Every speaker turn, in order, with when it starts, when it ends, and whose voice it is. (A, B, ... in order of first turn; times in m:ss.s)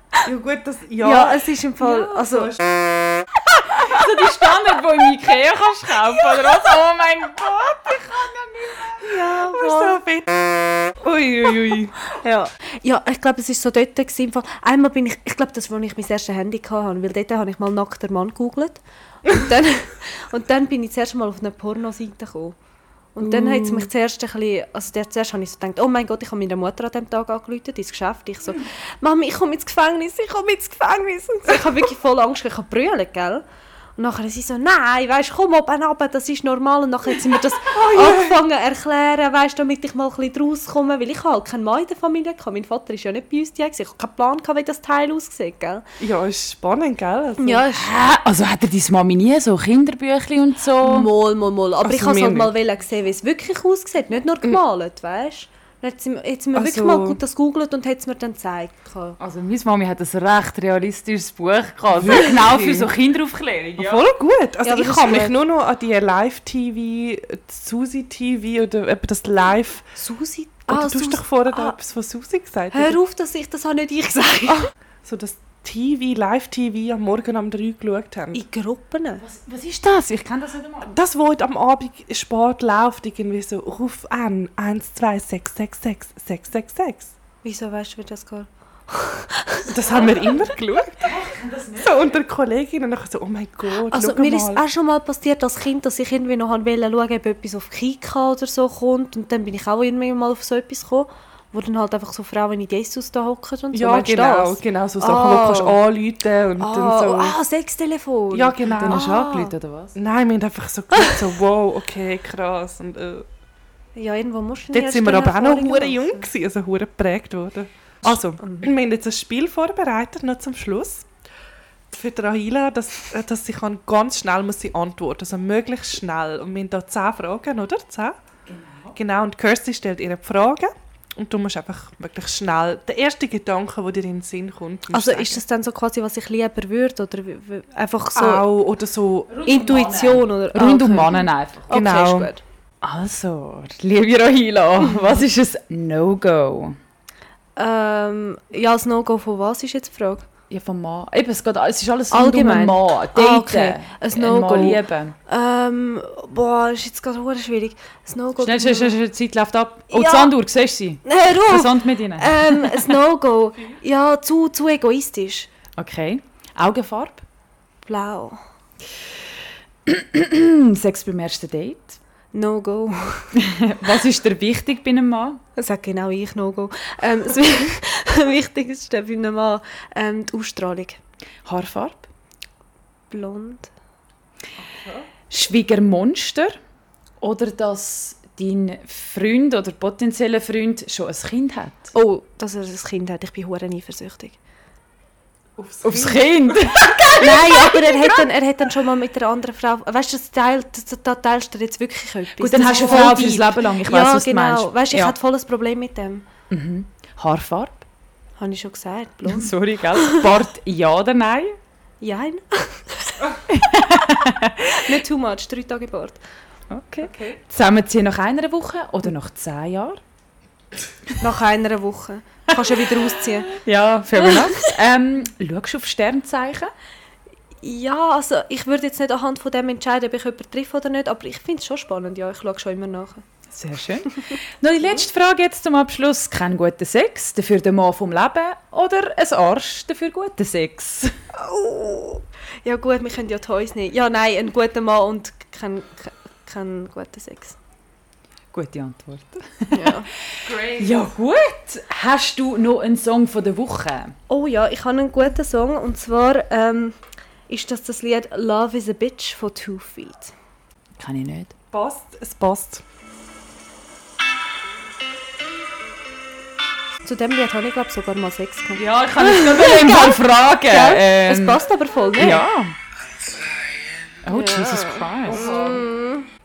0:00.2-0:01.5 A
0:01.0-0:02.6 B
0:02.3-0:02.6 A
0:03.7-0:09.9 C
0:09.0-0:11.9 A
0:12.2-0:22.6 B
0:23.1-0:33.4 B
0:23.2-0:23.9 A
0:34.0-0:45.8 B
0:37.7-0:38.4 A
0:46.0-0:47.6 A
0:47.4-0:47.9 B
0:47.7-0:51.1 C
0:50.8-0:59.2 B
0:51.8-0:52.5 A
0:56.5-0:57.2 A
0:59.2-1:04.0 C
1:01.9-1:02.9 A
1:03.8-1:09.9 A
1:04.6-1:05.4 B
1:10.0-1:11.8 B
1:10.7-1:13.0 A
1:12.7-1:14.7 B
1:14.5-1:18.4 A
1:18.3-1:19.2 B
1:19.2-1:21.0 C
1:20.8-1:27.1 A
1:27.4-1:30.4 B
1:29.7-1:31.2 A
1:29.9-1:30.2 C
1:31.0-1:32.2 C
1:31.8-1:34.6 A
1:33.8-1:45.8 B
1:43.7-1:47.4 A
1:46.6-1:49.5 B
1:48.3-1:49.3 A
1:48.7-1:50.0 C
1:50.0-1:53.2 A
1:54.0-1:56.3 B
1:54.7-2:01.1 A
1:58.4-1:58.7 B
2:01.9-2:08.2 A
2:08.4-2:09.0 C
2:08.9-2:15.4 A
2:14.9-2:18.5 B
2:18.1-2:19.3 A
2:19.3-2:21.7 C
2:19.4-2:22.4 B
2:21.7-2:22.3 A
2:22.8-2:26.8 C
2:24.8-2:25.1 B
2:27.6-2:30.2 B
2:30.5-2:35.2 C
2:32.1-2:39.0 B
2:38.4-2:42.9 C
2:39.9-2:40.4 B
2:41.0-2:45.5 B
2:45.8-2:47.2 C
2:47.8-2:48.4 B
2:49.8-2:52.0 C
2:52.3-2:53.3 B
2:53.3-2:55.4 C
2:55.6-3:01.0 B
3:01.4-3:02.1 C
3:03.1-3:03.7 B
3:04.6-3:05.1 A
3:05.3-3:06.6 C
3:07.2-3:11.9 C
3:11.9-3:14.4 B
3:15.6-3:17.2 A
3:15.8-3:18.2 C
3:16.7-3:26.2 B
3:22.4-3:25.1 C
3:22.7-3:23.2 A
3:26.5-3:27.8 C
3:28.4-3:30.3 B
3:29.3-3:31.6 C
3:32.0-3:33.3 B
3:33.5-3:34.8 C
3:34.6-3:36.2 B
3:36.7-3:40.0 C
3:37.0-3:37.4 A
3:41.2-3:43.5 B
3:43.5-3:46.7 C
3:44.1-3:44.7 B
3:47.6-3:53.2 B
3:53.5-4:01.1 C
4:01.3-4:07.6 B
4:08.5-4:14.1 C
4:09.7-4:10.1 B
4:10.5-4:10.9 A
4:14.3-4:20.3 B
4:21.0-4:21.5 C
4:21.7-4:22.8 A
4:27.0-4:32.4 B
4:28.8-4:31.6 C
4:32.2-4:32.7 C
4:34.2-4:35.8 C
4:34.3-4:36.3 B
4:35.3-4:35.8 A